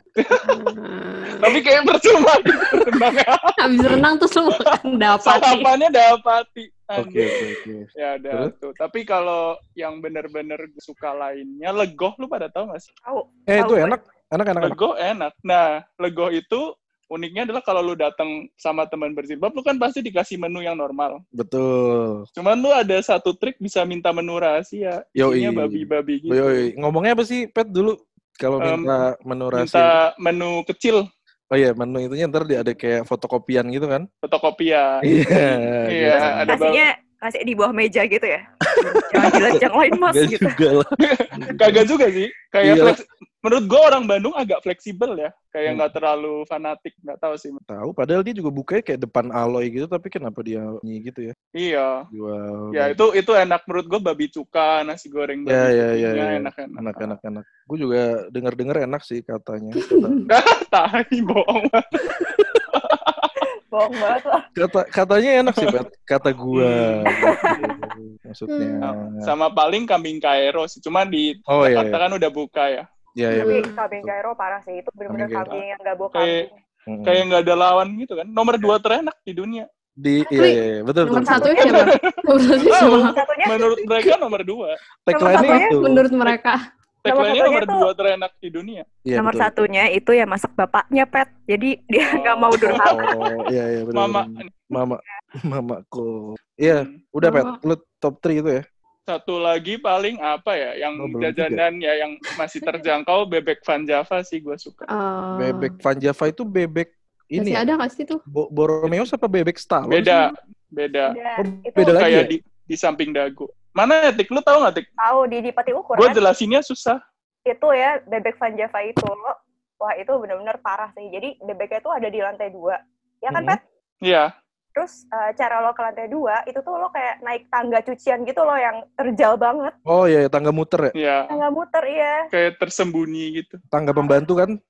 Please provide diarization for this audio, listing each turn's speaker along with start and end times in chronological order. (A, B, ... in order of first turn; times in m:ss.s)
0:00.2-0:00.5 A
0:00.4-0:01.6 B
0:01.4-0:04.0 A
0:03.6-0:05.7 B
0:05.2-0:07.5 A
0:07.0-0:08.5 C
0:08.0-0:12.9 A
0:13.0-0:14.0 D
0:13.5-0:14.8 C
0:14.6-0:21.2 A
0:21.4-0:22.2 C
0:22.4-0:26.7 A
0:25.2-0:30.0 C
0:28.6-0:28.9 A
0:29.6-0:31.0 A
0:31.5-0:34.1 C
0:34.2-0:36.8 A
0:35.0-0:36.6 C
0:36.2-0:40.6 D
0:38.7-0:41.9 C
0:41.0-0:47.6 A
0:42.6-0:43.0 C
0:47.7-0:51.3 C
0:51.6-0:52.0 A
0:52.1-0:53.0 C
0:52.7-0:57.2 A
0:55.5-1:00.2 C
0:59.8-1:00.3 B
1:00.3-1:03.3 A
1:03.7-1:04.5 D
1:04.6-1:09.3 C
1:05.5-1:05.8 A
1:06.5-1:07.6 A
1:07.2-1:07.7 D
1:08.5-1:08.8 B
1:08.8-1:12.8 A
1:11.5-1:12.0 C
1:13.2-1:14.1 C
1:13.3-1:13.7 B
1:13.4-1:16.6 D
1:15.1-1:15.6 C
1:16.1-1:16.4 A
1:16.9-1:17.3 C
1:17.0-1:19.7 A
1:20.0-1:21.6 C
1:20.3-1:23.2 B
1:21.2-1:22.0 D
1:21.6-1:22.0 A
1:22.6-1:24.8 A
1:22.7-1:23.7 D
1:25.1-1:26.0 C
1:25.1-1:25.7 D
1:25.3-1:26.6 B
1:27.0-1:28.8 A
1:27.1-1:27.8 D
1:29.1-1:29.5 C
1:29.2-1:33.1 D
1:32.0-1:33.1 A
1:32.7-1:38.6 C
1:34.0-1:34.5 A
1:36.6-1:37.0 A
1:37.2-1:37.6 B
1:39.1-1:44.9 A
1:41.0-1:41.6 C
1:44.9-1:45.7 B
1:45.4-1:47.6 C
1:47.4-1:48.2 B
1:48.3-1:50.3 C
1:49.9-1:51.2 A
1:51.1-1:52.0 D
1:51.4-1:52.3 C
1:51.8-1:54.8 A
1:55.0-1:56.2 D
1:56.0-1:57.0 A
1:57.5-2:03.6 D
2:03.3-2:03.6 C
2:04.0-2:04.3 A
2:04.8-2:09.7 D
2:09.9-2:10.9 C
2:11.0-2:11.4 A
2:11.3-2:12.2 D
2:12.3-2:13.6 A
2:13.7-2:14.6 C